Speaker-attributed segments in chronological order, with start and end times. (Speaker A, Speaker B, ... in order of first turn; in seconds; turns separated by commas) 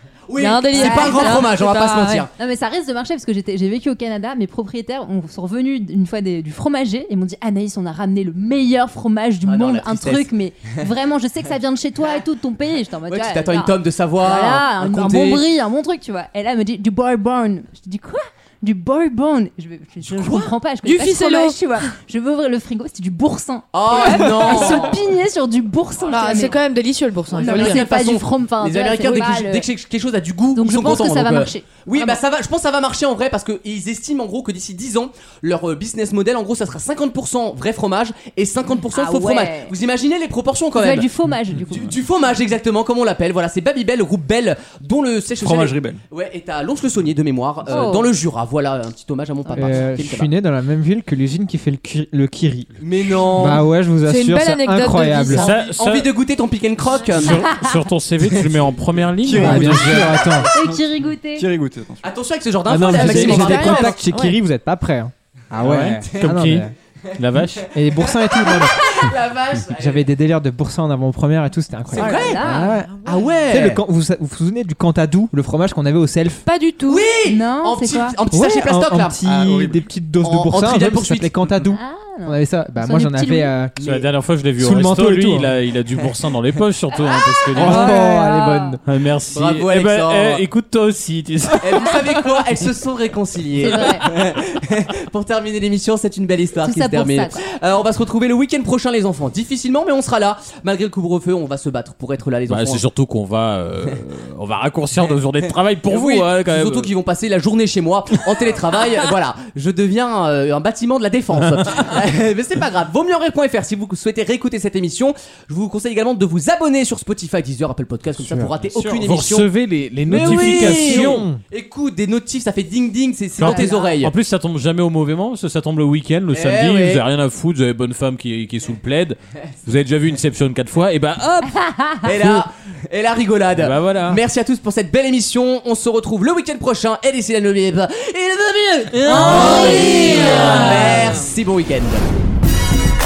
Speaker A: 0.3-2.3, Speaker B: 0.3-2.3, Speaker C: 0.7-1.5, Speaker C: 2.4-26.6, Speaker A: 9.4-10.3, Speaker A: 13.1-15.4, Speaker A: 20.0-20.5, Speaker B: 20.8-21.9, Speaker A: 23.7-25.0, Speaker B: 24.5-24.8, Speaker B: 26.0-27.9, Speaker C: 27.3-29.7, Speaker A: 27.4-41.1, Speaker C: 30.5-32.2, Speaker C: 38.9-39.7, Speaker C: 40.7-42.0, Speaker A: 41.7-50.3, Speaker D: 45.4-46.0, Speaker C: 47.7-48.1, Speaker C: 49.5-49.9, Speaker E: 49.5-52.7, Speaker A: 52.8-53.6, Speaker E: 53.3-55.5, Speaker B: 54.0-55.5, Speaker A: 55.3-57.5, Speaker F: 55.3-56.1, Speaker C: 56.9-57.3, Speaker F: 57.0-59.9, Speaker D: 59.2-62.1, Speaker E: 59.3-60.5, Speaker B: 59.7-60.1, Speaker C: 60.5-61.5, Speaker A: 62.0-64.0, Speaker E: 62.7-66.7, Speaker B: 62.9-64.4, Speaker F: 65.6-67.7, Speaker E: 67.7-69.1, Speaker A: 68.3-70.0, Speaker E: 69.7-72.9, Speaker A: 71.9-72.4, Speaker C: 71.9-72.9, Speaker B: 72.8-73.3, Speaker A: 73.0-73.8, Speaker E: 73.5-76.4, Speaker B: 76.5-77.1, Speaker A: 76.8-79.7, Speaker C: 77.2-78.2, Speaker E: 78.3-83.9, Speaker D: 79.4-79.7, Speaker A: 80.2-81.4, Speaker C: 81.6-83.5, Speaker F: 83.8-88.0, Speaker E: 84.6-85.5, Speaker C: 86.9-88.8, Speaker E: 87.5-88.8, Speaker F: 88.8-92.0, Speaker A: 89.3-90.4, Speaker A: 91.6-102.8, Speaker C: 93.6-94.0, Speaker C: 96.6-97.4, Speaker F: 102.5-106.9, Speaker A: 105.8-119.5, Speaker E: 118.2-118.5, Speaker F: 118.6-121.3, Speaker E: 120.1-121.4, Speaker A: 120.1-124.1, Speaker C: 123.4-124.0, Speaker F: 123.4-132.3, Speaker A: 126.3-127.0, Speaker C: 131.6-131.9, Speaker A: 132.0-142.1, Speaker F: 133.6-134.2, Speaker F: 139.0-141.2, Speaker C: 139.1-140.9